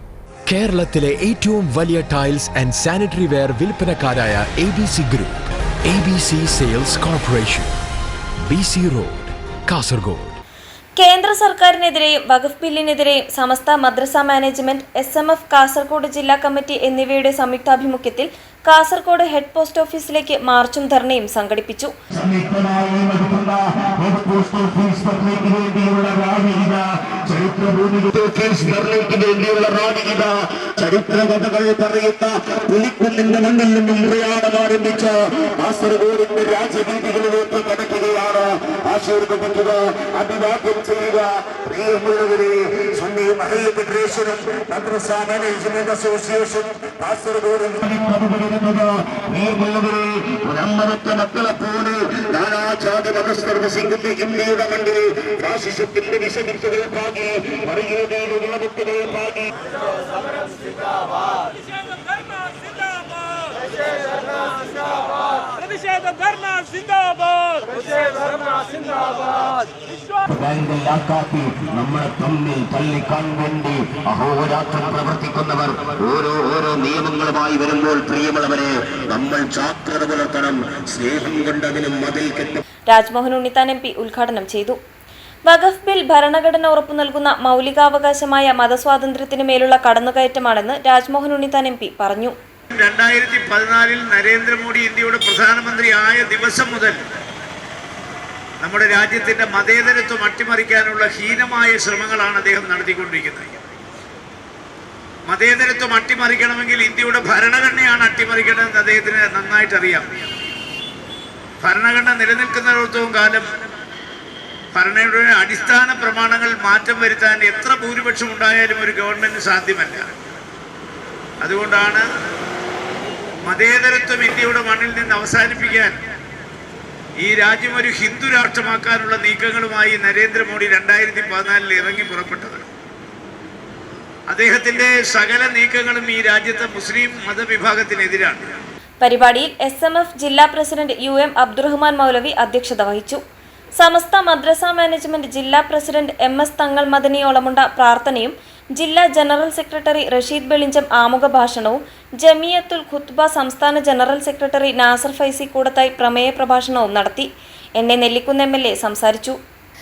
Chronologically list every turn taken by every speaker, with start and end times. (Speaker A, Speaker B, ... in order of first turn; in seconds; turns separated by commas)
Speaker A: 0.5-7.7, Speaker A: 8.4-10.4, Speaker B: 11.0-21.9, Speaker C: 22.1-59.5, Speaker A: 65.7-67.3, Speaker C: 70.3-82.6, Speaker B: 82.9-84.8, Speaker B: 85.5-92.3, Speaker D: 92.7-97.0, Speaker D: 98.6-103.6, Speaker D: 105.2-110.0, Speaker D: 111.6-113.5, Speaker D: 114.7-120.1, Speaker D: 121.4-122.0, Speaker D: 123.4-126.0, Speaker D: 127.2-132.6, Speaker D: 134.3-138.4, Speaker B: 139.0-143.2, Speaker B: 143.8-159.3